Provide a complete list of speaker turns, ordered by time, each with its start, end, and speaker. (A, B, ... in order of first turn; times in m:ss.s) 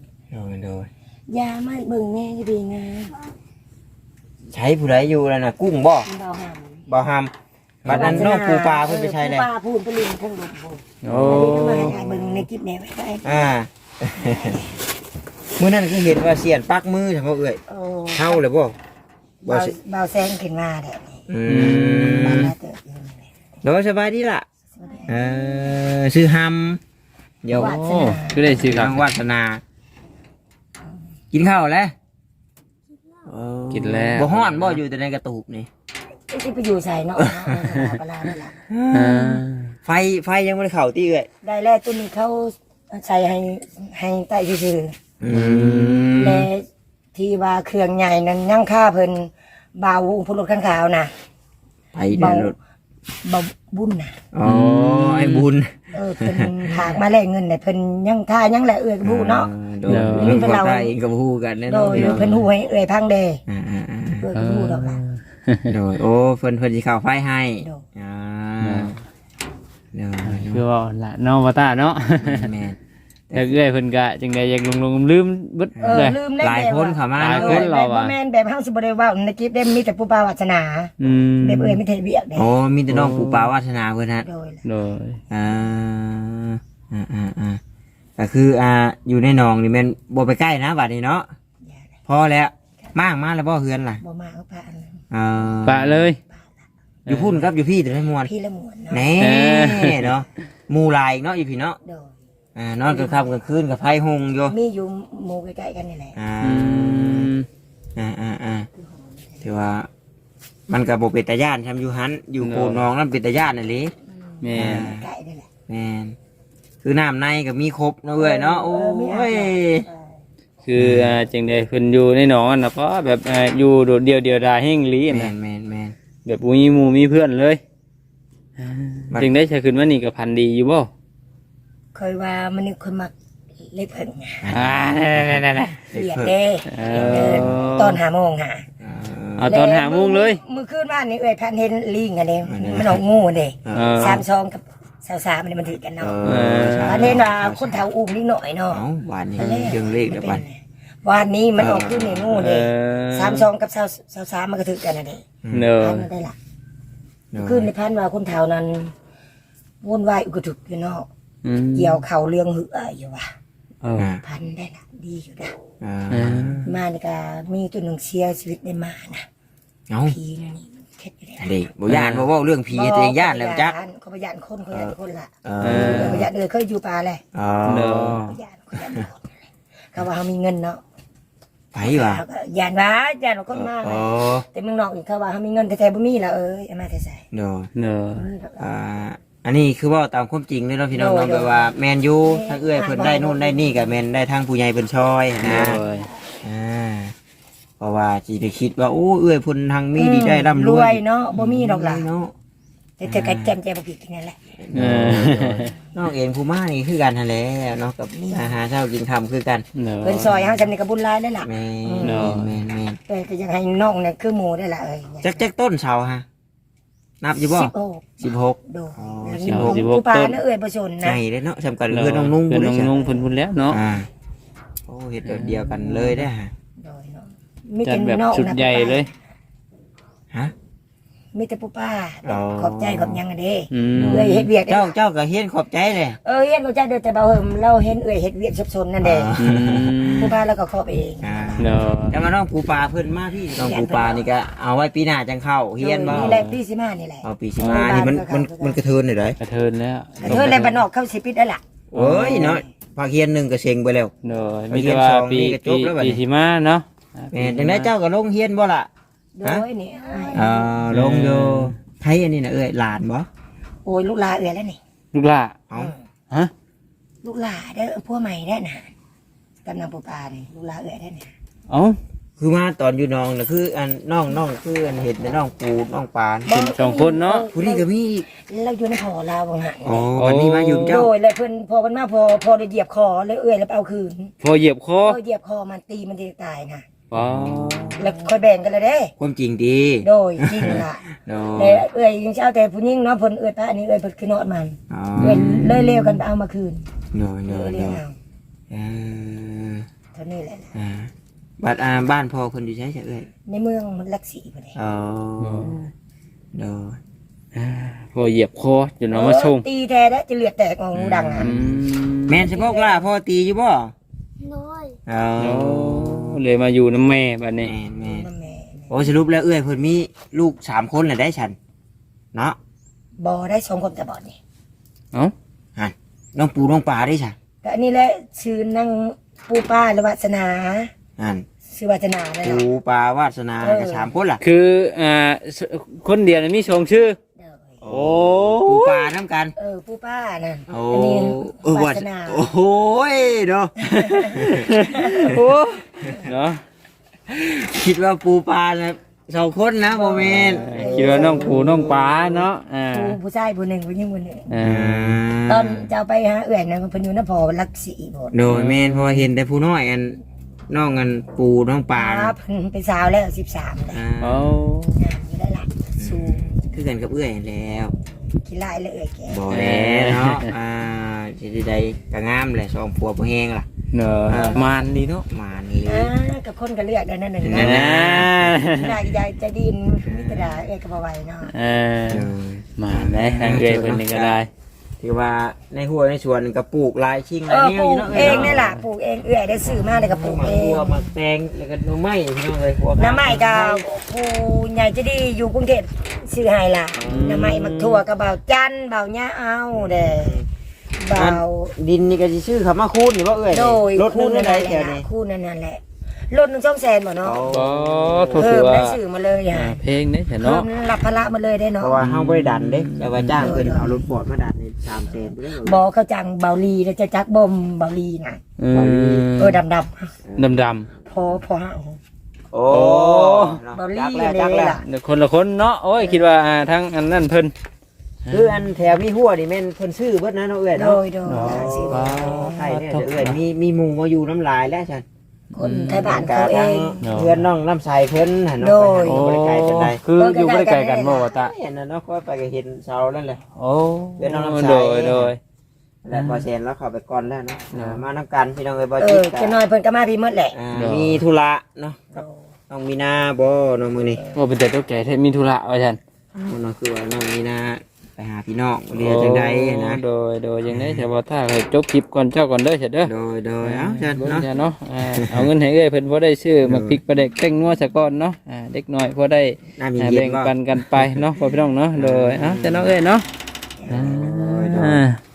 0:00.3-0:00.9 A
0:01.3-0:03.2 B
0:04.5-0:06.1 A
0:06.1-0:06.8 B
0:06.9-0:07.3 A
0:07.8-0:09.5 A
0:07.9-0:08.2 C
0:07.9-0:13.5 B
0:11.0-0:12.0 C
0:11.1-0:12.5 A
0:13.2-0:14.6 A
0:14.2-0:14.8 B
0:15.6-0:17.6 A
0:17.7-0:18.4 B
0:18.1-0:18.8 A
0:19.4-0:19.8 A
0:19.4-0:21.2 B
0:21.3-0:22.5 A
0:21.5-0:22.5 C
0:21.9-0:23.3 B
0:23.6-0:24.5 A
0:24.7-0:25.2 B
0:25.1-0:26.8 A
0:27.4-0:27.8 A
0:27.5-0:28.6 B
0:27.5-0:29.1 C
0:28.6-0:29.6 A
0:31.3-0:32.0 A
0:33.3-0:35.7 A
0:33.7-0:34.8 C
0:36.3-0:38.6 B
0:37.2-0:37.7 A
0:38.7-0:41.3 A
0:38.9-0:39.8 C
0:41.4-0:45.0 B
0:45.2-0:46.5 A
0:45.3-0:46.5 C
0:46.2-0:51.1 B
0:51.9-0:52.6 A
0:52.1-0:52.6 B
0:53.2-0:54.2 B
0:54.3-0:57.0 A
0:54.4-0:55.5 C
0:55.9-1:00.9 B
0:59.0-1:02.3 A
0:59.9-1:00.5 C
1:01.7-1:03.4 B
1:01.9-1:02.4 C
1:03.5-1:04.3 A
1:04.2-1:05.0 B
1:04.4-1:05.7 C
1:05.7-1:09.0 A
1:08.6-1:09.0 C
1:09.9-1:10.6 A
1:10.2-1:12.5 C
1:12.2-1:12.8 A
1:13.3-1:16.2 C
1:15.8-1:17.7 A
1:15.8-1:22.5 B
1:17.2-1:18.2 C
1:21.0-1:21.8 C
1:22.4-1:24.3 A
1:22.9-1:23.5 C
1:24.2-1:24.6 B
1:24.6-1:25.2 C
1:25.3-1:27.6 A
1:28.2-1:31.3 A
1:32.1-1:34.0 A
1:34.0-1:35.0 B
1:35.1-1:36.1 A
1:35.6-1:36.2 C
1:37.1-1:37.4 C
1:37.1-1:38.3 A
1:38.3-1:39.1 B
1:38.9-1:41.8 A
1:39.2-1:40.1 C
1:41.8-1:42.1 B
1:42.6-1:44.6 A
1:42.9-1:43.3 B
1:44.5-1:46.2 B
1:46.2-1:47.3 A
1:46.4-1:47.5 C
1:48.0-1:48.7 A
1:49.4-1:49.9 A
1:50.7-1:53.9 A
1:52.4-1:52.8 C
1:54.3-1:55.5 B
1:54.4-1:54.9 C
1:54.6-1:55.0 A
1:55.7-1:56.2 A
1:56.8-1:59.9 A
1:58.2-2:00.1 B
2:00.6-2:05.3 C
2:00.8-2:01.2 A
2:05.1-2:06.0 A
2:06.2-2:07.6 C
2:08.6-2:10.9 C
2:12.0-2:13.1 B
2:13.6-2:14.5 B
2:14.4-2:16.4 A
2:14.5-2:15.9 C
2:15.9-2:18.6 B
2:16.7-2:18.0 C
2:16.9-2:17.6 A
2:18.8-2:19.6 A
2:19.4-2:20.4 C
2:19.4-2:26.2 B
2:22.5-2:23.0 A
2:23.6-2:24.2 A
2:23.7-2:24.2 C
2:26.0-2:27.8 A
2:26.2-2:27.2 C
2:26.8-2:28.8 B
2:28.7-2:30.4 A
2:29.4-2:35.2 B
2:31.6-2:32.4 A
2:32.3-2:33.5 C
2:35.4-2:35.7 A
2:35.5-2:36.1 C
2:35.8-2:36.4 B
2:37.3-2:37.7 A
2:37.4-2:38.9 B
2:39.8-2:41.1 B
2:41.4-2:42.0 C
2:41.8-2:43.3 B
2:43.8-2:44.1 C
2:44.0-2:44.2 A
2:44.2-2:45.6 B
2:45.8-2:46.6 A
2:46.1-2:46.7 C
2:46.6-2:49.3 B
2:49.9-2:50.2 A
2:50.1-2:51.6 B
2:51.4-2:53.8 A
2:51.9-2:52.3 C
2:52.7-2:57.2 B
2:54.7-2:56.3 A
2:55.6-2:56.3 C
2:57.3-2:59.1 A
2:57.6-2:58.2 C
2:58.1-2:59.4 B
2:59.9-3:00.8 B
3:01.7-3:02.2 A
3:01.8-3:07.2 B
3:03.5-3:04.4 A
3:07.3-3:07.7 A
3:07.8-3:08.2 C
3:08.1-3:08.7 B
3:08.6-3:15.8 A
3:10.9-3:11.7 B
3:12.2-3:13.9 B
3:15.4-3:16.1 C
3:15.5-3:16.0 B
3:16.4-3:17.1 A
3:17.8-3:22.3 A
3:20.0-3:22.1 B
3:23.0-3:24.5 B
3:23.0-3:23.6 A
3:24.6-3:29.6 A
3:24.7-3:25.7 C
3:28.1-3:28.6 B
3:29.8-3:30.3 C
3:30.0-3:32.4 B
3:30.2-3:30.7 A
3:31.4-3:33.0 A
3:32.0-3:32.5 C
3:33.1-3:35.4 B
3:35.2-3:36.2 A
3:37.2-3:39.9 A
3:37.4-3:41.2 B
3:39.5-3:40.4 C
3:41.0-3:43.0 A
3:41.9-3:43.8 C
3:43.7-3:44.1 A
3:44.9-3:46.5 A
3:45.2-3:46.2 C
3:46.8-3:49.1 B
3:47.8-3:49.1 C
3:51.3-3:55.0 B
3:52.2-3:53.2 A
3:53.7-3:54.4 C
3:54.0-3:56.2 A
3:56.2-3:59.3 B
3:59.0-4:00.4 A
3:59.4-4:00.4 C
4:00.1-4:01.6 B
4:01.2-4:06.4 A
4:01.6-4:02.2 C
4:03.6-4:04.2 B
4:05.8-4:08.8 B
4:06.1-4:06.6 C
4:07.2-4:09.4 A
4:07.6-4:08.0 C
4:09.4-4:10.8 C
4:10.2-4:10.7 A
4:10.2-4:11.6 B
4:11.9-4:14.1 A
4:12.0-4:12.6 C
4:12.3-4:12.6 B
4:14.2-4:17.9 C
4:14.7-4:16.2 A
4:17.3-4:18.9 A
4:19.4-4:20.7 B
4:20.3-4:23.3 A
4:20.9-4:21.8 C
4:23.8-4:24.8 B
4:25.1-4:25.6 C
4:27.2-4:28.9 B
4:29.6-4:31.3 B
4:31.7-4:32.0 C
4:32.4-4:36.5 A
4:36.5-4:40.1 B
4:36.5-4:37.5 C
4:37.5-4:38.3 A
4:39.8-4:41.1 A
4:40.2-4:41.0 C
4:40.9-4:44.3 B
4:44.4-4:45.2 C
4:45.0-4:46.9 B
4:47.1-4:48.0 C
4:47.2-4:48.0 A
4:48.0-4:49.1 B
4:49.2-4:51.8 A
4:50.0-4:56.9 B
4:54.9-4:56.2 A
4:55.2-4:55.8 C
4:57.1-4:58.0 A
4:57.5-4:58.2 B
4:58.7-4:59.9 A
5:00.2-5:00.7 B
5:00.7-5:03.3 A
5:03.5-5:04.8 B
5:04.8-5:05.8 A
5:05.4-5:05.9 C
5:06.5-5:07.0 A
5:07.5-5:09.6 C
5:09.1-5:11.5 B
5:10.9-5:13.9 A
5:11.4-5:12.5 C
5:12.5-5:13.0 B
5:14.4-5:15.0 B
5:15.1-5:16.4 A
5:15.4-5:17.7 C
5:17.6-5:18.3 A
5:18.0-5:19.0 B
5:18.9-5:21.6 A
5:23.2-5:24.4 B
5:25.8-5:27.4 A
5:27.6-5:30.9 B
5:31.2-5:31.5 A
5:31.7-5:32.7 B
5:32.4-5:34.4 A
5:33.6-5:34.1 B
5:34.4-5:37.2 C
5:37.4-5:37.8 B
5:37.8-5:39.6 A
5:37.9-5:39.1 C
5:39.6-5:42.5 B
5:40.7-5:45.5 A
5:43.8-5:46.6 C
5:43.8-5:45.3 B
5:46.1-5:46.3 A
5:47.3-5:52.4 A
5:49.9-5:51.7 B
5:50.2-5:53.2 C
5:52.9-5:54.5 B
5:54.5-5:55.2 C
5:54.6-5:55.9 A
5:55.5-5:58.4 B
5:58.3-6:02.4 A
5:58.5-5:59.3 C
6:02.0-6:04.0 B
6:03.9-6:04.6 A
6:04.2-6:05.0 C
6:05.0-6:06.7 B
6:06.0-6:07.9 A
6:08.4-6:09.4 B
6:09.3-6:13.7 A
6:09.5-6:10.5 C
6:13.9-6:15.3 C
6:14.3-6:16.1 A
6:14.3-6:14.6 B
6:15.8-6:21.5 B
6:17.4-6:18.6 A
6:17.5-6:18.9 C
6:20.1-6:20.7 A
6:21.5-6:24.5 C
6:22.1-6:24.4 A
6:25.0-6:28.6 A
6:27.5-6:31.0 B
6:28.1-6:28.8 C
6:29.6-6:33.9 A
6:33.0-6:40.4 B
6:37.0-6:37.7 A
6:37.0-6:38.0 C
6:39.7-6:40.5 A
6:41.0-6:41.7 B
6:41.1-6:45.1 A
6:43.5-6:47.5 B
6:47.2-6:48.6 A
6:47.5-6:49.0 C
6:48.3-6:49.8 B
6:49.5-6:50.7 C
6:50.4-6:52.0 B
6:51.8-6:55.8 A
6:52.0-6:53.6 C
6:53.4-6:54.1 B
6:55.5-6:58.4 B
6:58.6-6:59.6 C
6:58.7-6:59.3 A
6:59.4-7:00.2 B
7:00.3-7:00.6 A
7:00.4-7:00.9 C
7:01.0-7:02.0 B
7:02.5-7:04.8 A
7:02.7-7:03.6 C
7:03.8-7:04.8 B
7:04.8-7:07.5 C
7:08.3-7:08.6 C
7:08.3-7:15.0 A
7:10.8-7:12.4 B
7:11.3-7:13.4 C
7:15.5-7:16.3 C
7:15.6-7:17.0 B
7:15.9-7:20.0 A
7:17.0-7:17.4 C
7:18.6-7:19.2 B
7:19.1-7:21.5 C
7:20.2-7:21.3 B
7:21.3-7:23.4 A
7:23.6-7:25.4 C
7:24.2-7:25.4 A
7:26.0-7:29.6 A
7:26.1-7:26.4 C
7:27.7-7:28.0 C
7:29.0-7:30.6 B
7:30.5-7:34.3 A
7:30.7-7:31.2 C
7:34.3-7:36.0 C
7:36.3-7:40.0 A
7:38.9-7:53.3 C
7:40.7-7:41.1 A
7:43.1-7:44.5 A
7:45.1-7:45.5 A
7:46.6-7:47.0 A
7:49.8-7:51.4 A
7:52.0-7:53.0 A
7:53.9-7:55.1 A
7:53.9-7:55.2 C